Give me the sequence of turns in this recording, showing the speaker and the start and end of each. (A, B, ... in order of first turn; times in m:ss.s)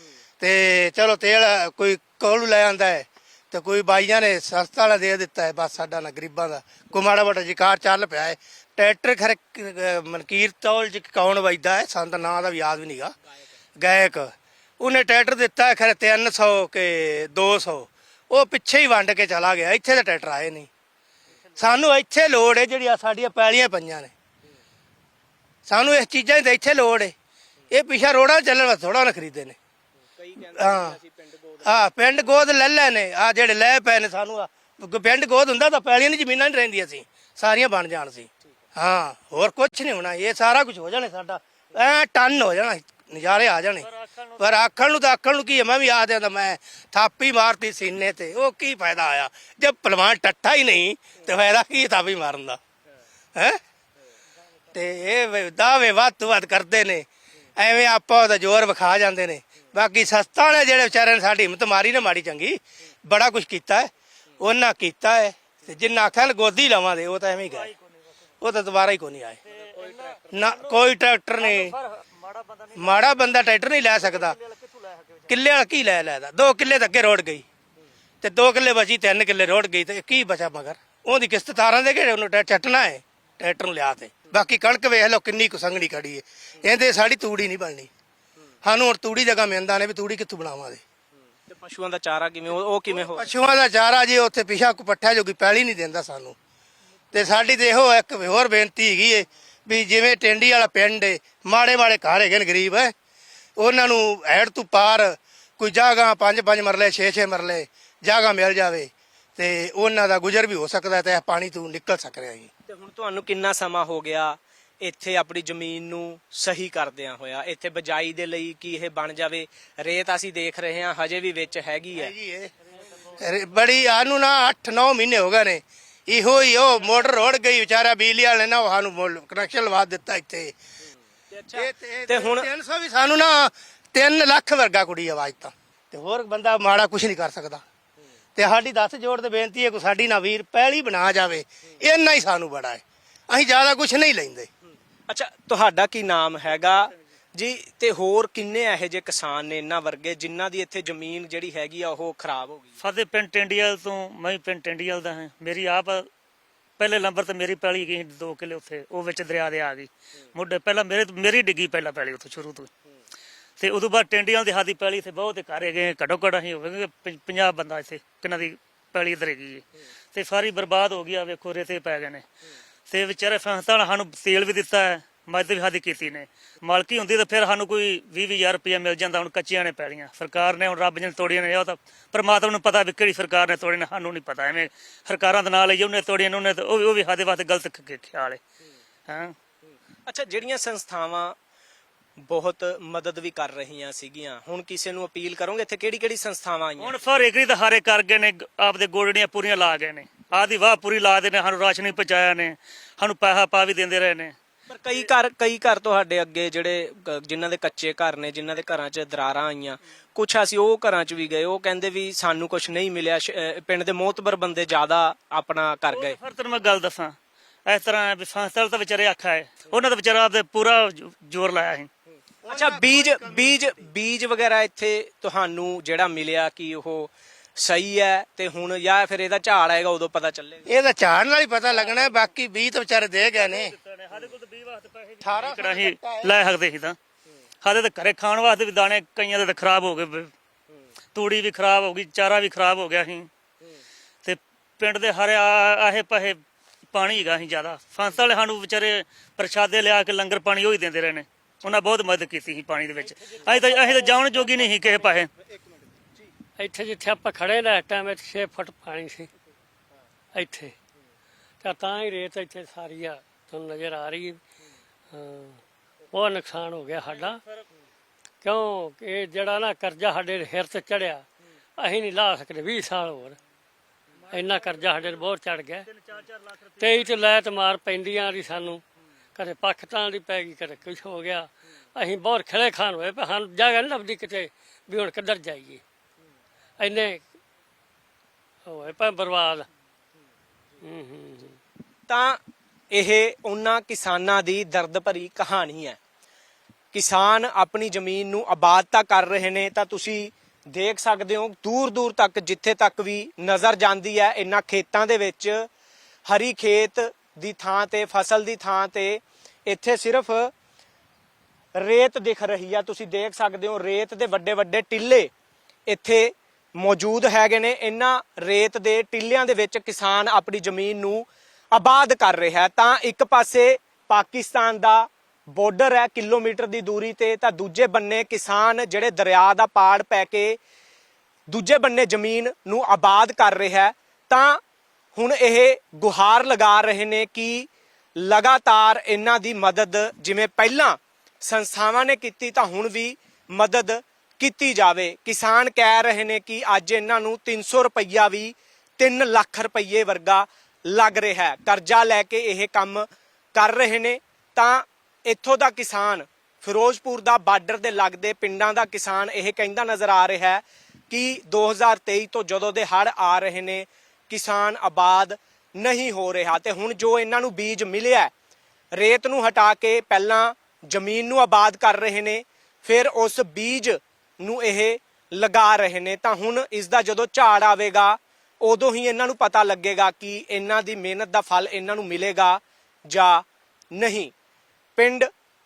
0:00.4-0:13.1 A
0:13.8-0:20.7 A
0:21.6-0:24.1 A
0:25.7-0:27.1 A
0:27.7-0:29.6 A
0:30.1-0:31.8 B
0:30.6-0:31.0 A
0:31.6-0:43.9 A
0:43.8-0:44.4 C
0:44.4-0:52.6 A
0:54.7-1:07.7 A
1:07.5-1:07.9 C
1:08.4-1:09.4 A
1:09.5-1:10.8 C
1:09.8-1:10.1 B
1:10.3-1:11.8 A
1:11.4-1:13.1 C
1:12.8-1:14.4 A
1:14.0-1:15.3 C
1:15.3-1:17.4 A
1:18.2-1:27.9 A
1:28.6-1:30.8 A
1:31.5-1:33.3 B
1:32.9-1:36.4 A
1:37.1-1:42.9 A
1:43.6-1:52.5 A
1:52.7-2:02.1 B
2:02.0-2:10.6 A
2:11.3-2:12.5 B
2:11.6-2:17.6 A
2:18.4-2:24.5 A
2:25.1-2:32.8 B
2:32.8-2:36.1 C
2:36.8-2:42.7 C
2:43.6-2:52.2 C
2:52.9-3:08.4 C
3:09.1-3:09.4 C
3:10.1-3:11.4 B
3:12.3-3:17.0 B
3:16.8-3:24.4 C
3:24.7-3:36.2 B
3:35.9-3:41.9 C
3:42.4-3:43.9 A
3:42.5-3:50.7 B
3:50.7-3:53.7 A
3:53.3-3:57.0 C
3:55.2-3:56.4 A
3:57.6-4:00.3 C
4:01.2-4:03.3 C
4:04.2-4:06.4 C
4:06.9-4:15.3 C
4:16.6-4:19.3 D
4:20.3-4:20.8 D
4:21.6-4:24.4 D
4:25.1-4:25.6 D
4:26.1-4:27.4 D
4:28.4-4:31.2 D
4:31.8-4:33.4 D
4:34.3-4:35.9 D
4:34.6-4:34.9 C
4:35.9-4:37.1 C
4:36.8-4:38.8 D
4:39.4-4:45.8 D
4:46.8-4:47.2 D
4:48.7-4:49.7 D
4:50.8-4:51.6 D
4:52.1-4:52.4 B
4:52.9-4:56.0 B
4:56.9-5:05.7 B
5:06.3-5:10.5 B
5:11.8-5:15.3 B
5:15.9-5:30.6 B
5:31.5-5:34.6 B
5:35.2-6:08.3 B
6:08.9-6:24.3 B
6:25.0-6:25.3 B